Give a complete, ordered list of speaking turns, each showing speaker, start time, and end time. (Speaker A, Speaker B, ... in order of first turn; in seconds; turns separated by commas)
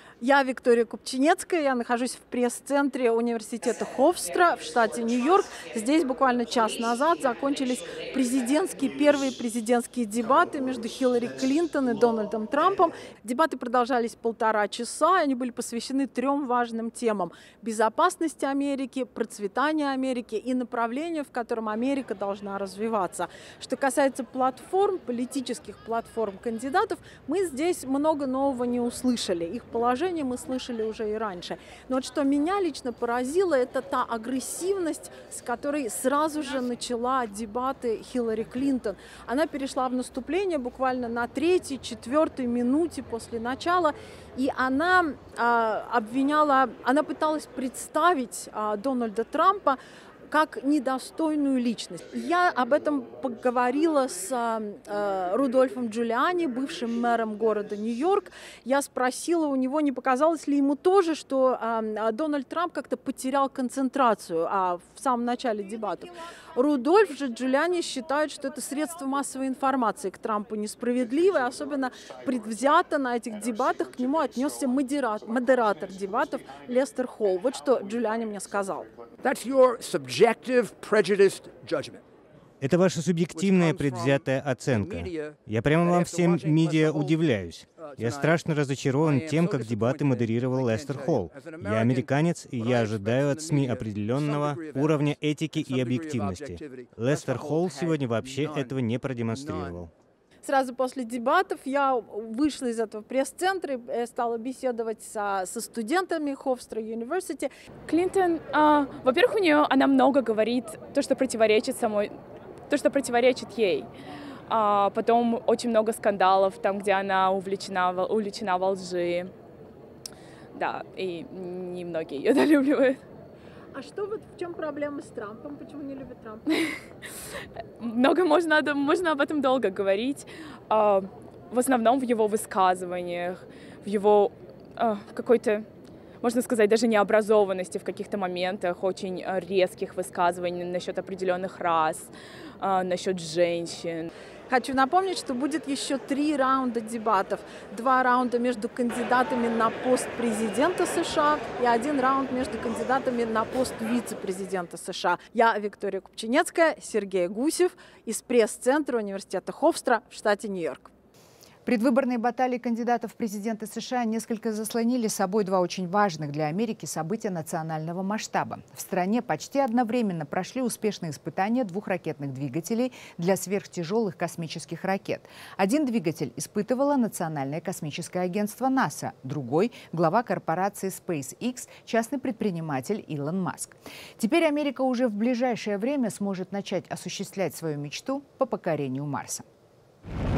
Speaker A: 0.2-78.9, Speaker B: 82.6-99.9, Speaker A: 100.4-107.5, Speaker C: 107.9-112.2, Speaker C: 112.7-113.9, Speaker C: 114.5-119.3, Speaker C: 120.5-123.0, Speaker A: 123.7-126.5, Speaker C: 127.8-135.7, Speaker C: 136.2-144.1, Speaker A: 144.5-160.9, Speaker D: 161.6-189.4